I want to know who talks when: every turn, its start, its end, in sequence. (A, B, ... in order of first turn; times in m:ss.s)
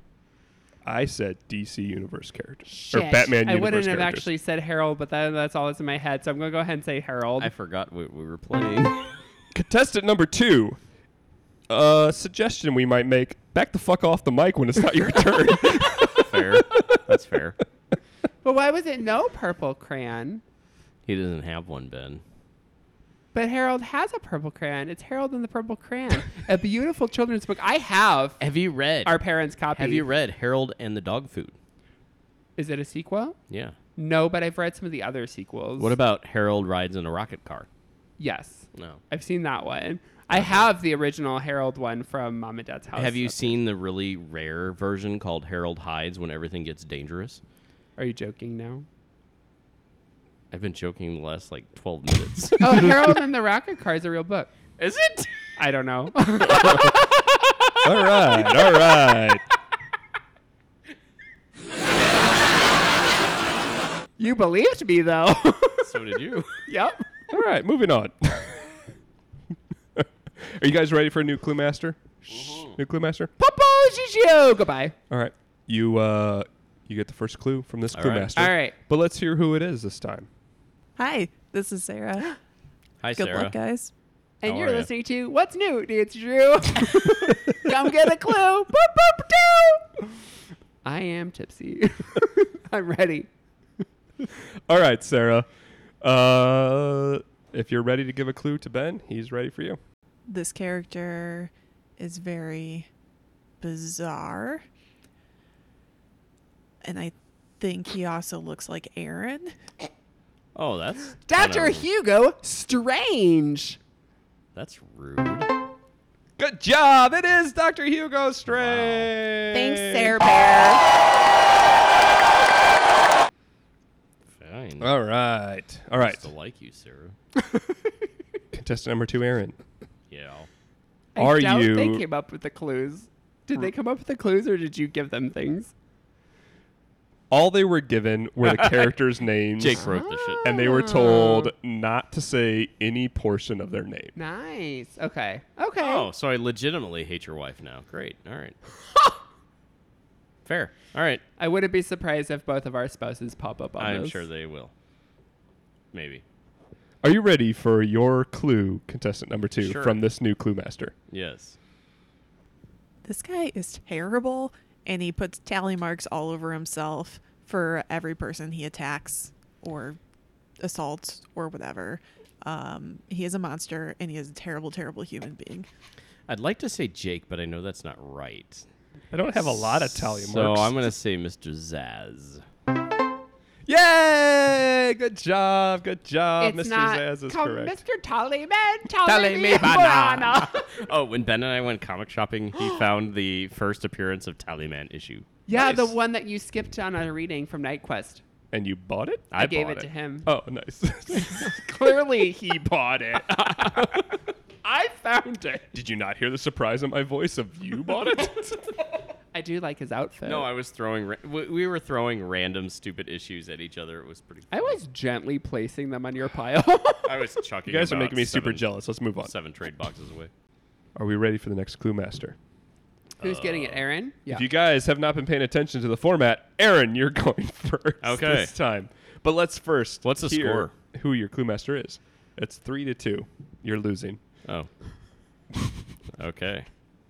0:00.8-0:04.3 A
0:02.7-0:07.5 B
0:07.4-0:09.1 C
0:09.5-0:10.8 A
0:11.7-0:17.0 A
0:16.2-0:17.6 C
0:18.4-0:20.4 B
0:21.0-0:22.2 C
0:23.3-0:28.4 B
0:28.4-0:31.5 C
0:29.0-0:30.0 B
0:32.6-0:33.4 B
0:33.5-0:33.8 C
0:34.0-0:35.9 B
0:35.8-0:37.7 C
0:38.2-0:43.6 B
0:38.7-0:39.0 C
0:40.3-0:40.7 C
0:42.9-0:47.4 C
0:48.0-0:48.8 B
0:50.5-0:52.9 C
0:52.6-0:54.5 B
0:54.8-0:55.3 C
0:55.6-0:57.3 B
0:57.8-0:59.4 A
1:04.2-1:05.9 B
1:05.8-1:06.6 C
1:06.6-1:07.0 B
1:07.3-1:08.7 A
1:10.0-1:13.3 A
1:12.3-1:12.8 C
1:13.4-1:14.9 B
1:15.1-1:20.3 A
1:17.9-1:18.3 C
1:18.4-1:18.7 B
1:21.0-1:22.4 D
1:23.0-1:23.6 C
1:23.1-1:23.9 D
1:24.4-1:29.9 B
1:24.4-1:24.9 C
1:30.8-1:33.3 B
1:34.7-1:35.5 A
1:36.0-1:39.8 A
1:40.3-1:42.9 D
1:43.6-1:44.6 D
1:46.8-1:49.5 D
1:50.5-1:51.8 C
1:51.3-1:53.8 B
1:54.5-1:55.5 C
1:56.4-2:00.2 A
1:58.4-1:59.1 C
1:59.5-2:00.8 B
2:04.3-2:04.9 C
2:04.8-2:06.2 A
2:06.0-2:07.2 C
2:08.5-2:09.6 A
2:10.1-2:10.5 C
2:11.1-2:15.7 B
2:11.2-2:12.0 A
2:17.3-2:19.9 A
2:18.4-2:18.9 C
2:19.6-2:20.5 C
2:19.8-2:21.5 B
2:20.4-2:24.1 A
2:24.2-2:26.1 B
2:25.8-2:28.6 C
2:30.4-2:31.2 C
2:31.4-2:34.2 B
2:33.8-2:34.7 C
2:35.9-2:36.2 C
2:37.0-2:40.9 A
2:39.6-2:40.0 C
2:41.1-2:41.6 C
2:43.0-2:50.0 D
2:50.6-2:55.7 D
2:56.3-2:58.6 C
2:59.1-3:00.9 A
2:59.5-3:02.4 C
3:03.6-3:07.8 A
3:06.4-3:10.7 B
3:09.1-3:15.2 C
3:15.5-3:18.2 B
3:18.5-3:21.6 A
3:19.3-3:19.8 C
3:19.4-3:20.3 B
3:21.1-3:24.0 B
3:23.1-3:23.9 A
3:24.6-3:25.7 B
3:25.7-3:28.6 A
3:29.3-3:30.5 B
3:30.2-3:34.8 C
3:34.5-3:37.1 B
3:37.0-3:38.7 C
3:37.6-3:39.3 A
3:39.2-3:40.3 C
3:41.0-3:42.4 A
3:43.2-3:43.8 C
3:43.2-3:44.4 B
3:44.3-3:54.2 A
3:48.0-3:48.5 C
3:50.0-3:50.7 C
3:56.2-3:56.6 C